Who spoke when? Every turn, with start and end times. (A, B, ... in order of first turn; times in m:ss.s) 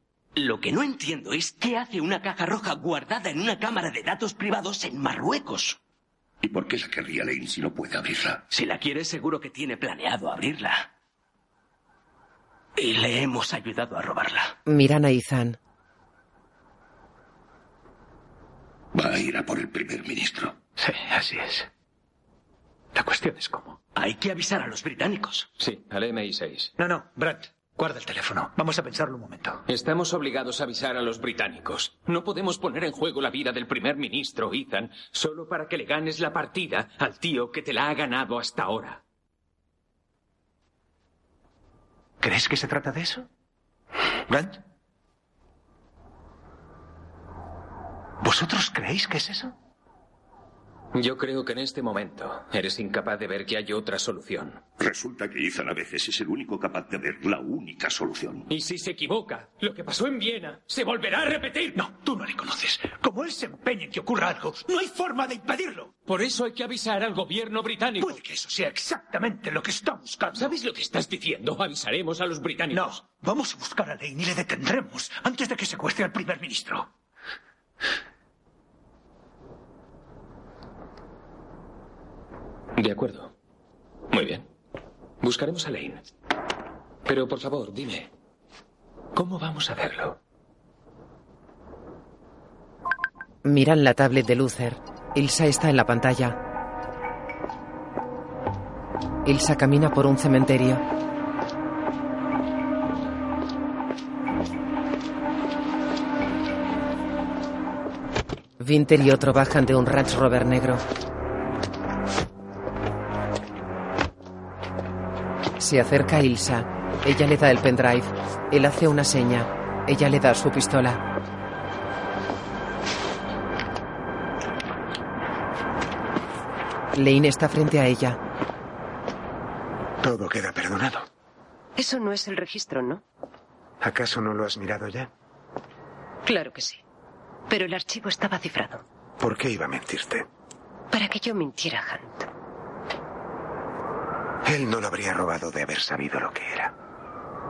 0:00.4-0:05.8 A
0:06.4-0:08.4 B
0:08.5-0:10.9 A
0:12.8-0:14.5 A
0:14.6-0:15.6 C
0:18.9-0:20.6 B
0:20.8-0:21.7 D
0:22.9-0:23.8 D
0:23.9-0:25.5 A
0:25.6-0:26.7 E
0:26.8-0:29.6 D
0:29.7-0:39.0 E
0:42.2-0:43.2 D
0:44.3-0:44.6 D
0:48.2-0:49.5 D
0:50.9-0:54.6 E
0:54.8-0:58.5 B
0:58.5-1:01.8 E
1:01.7-1:05.9 D
1:06.0-1:08.2 E
1:08.0-1:10.5 D
1:10.3-1:12.9 E
1:12.7-1:16.9 D
1:22.8-1:23.3 E
1:24.1-1:24.5 E
1:25.2-1:26.0 E
1:27.0-1:28.1 E
1:29.1-1:30.2 E
1:33.4-1:36.4 C
1:39.2-1:40.8 C
1:48.6-1:50.8 C
1:55.6-2:01.0 C
2:06.9-2:08.2 C
2:10.0-2:11.1 F
2:11.8-2:13.0 G
2:13.8-2:15.1 F
2:16.2-2:16.8 G
2:17.5-2:18.8 G
2:19.2-2:20.2 F
2:20.9-2:22.3 G
2:24.4-2:26.7 F